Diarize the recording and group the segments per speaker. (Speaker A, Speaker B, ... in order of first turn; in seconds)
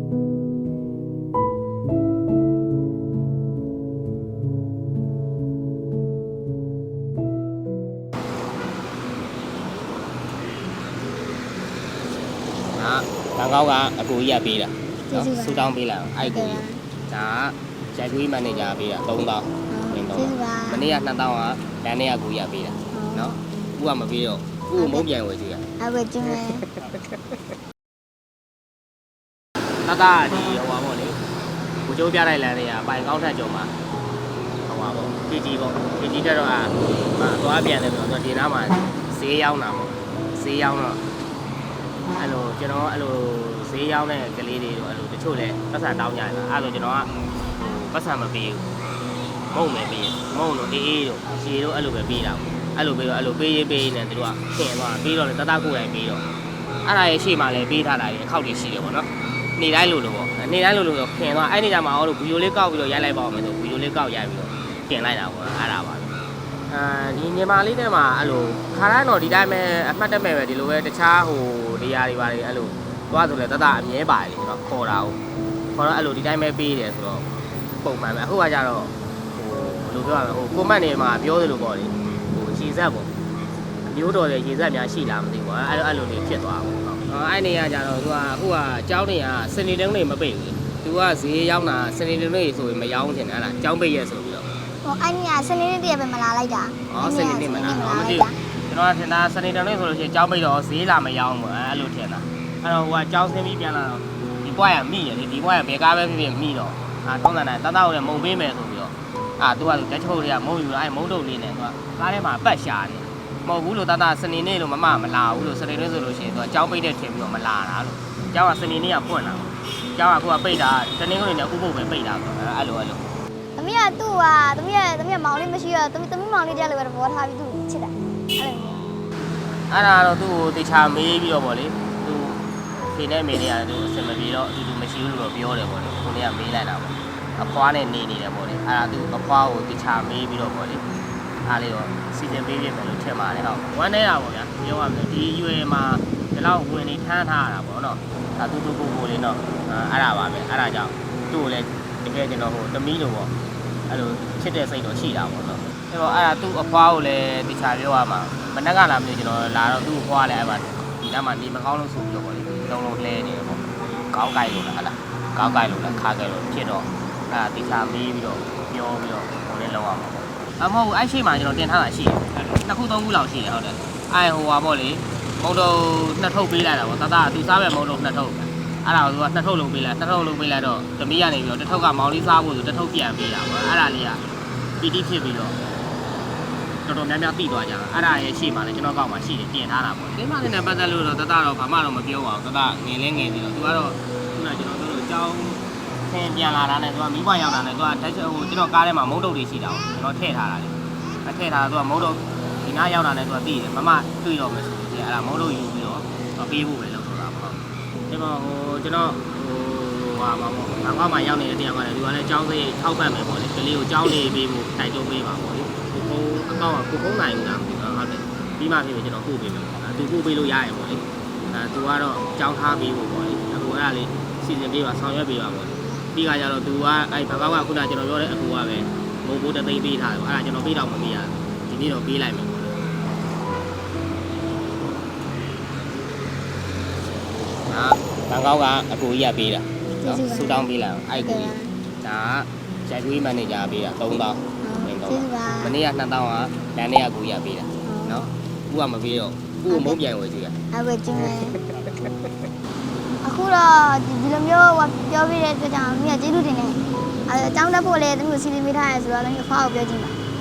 Speaker A: 12.7-25.6, 26.4-27.0, 29.8-31.2, 31.8-33.7, 34.6-41.0, 42.1-48.6, 49.5-56.2, 56.8-66.1, 66.7-75.2, 75.7-77.3, 77.8-83.1, 83.8-94.5, 96.9-123.0, 129.7-140.8, 141.4-153.3, 153.9-184.2, 184.8-185.6, 186.8-207.6, 208.1-232.6, 237.7-250.6, 251.2-252.1
Speaker B: 15.1-16.8, 19.7-20.9, 22.9-23.4, 24.8-25.0, 25.8-26.6, 94.8-98.4, 123.6-128.8, 240.0-241.8, 244.6-245.7, 247.8-248.3, 249.7-250.0, 250.7-251.6, 253.2-260.2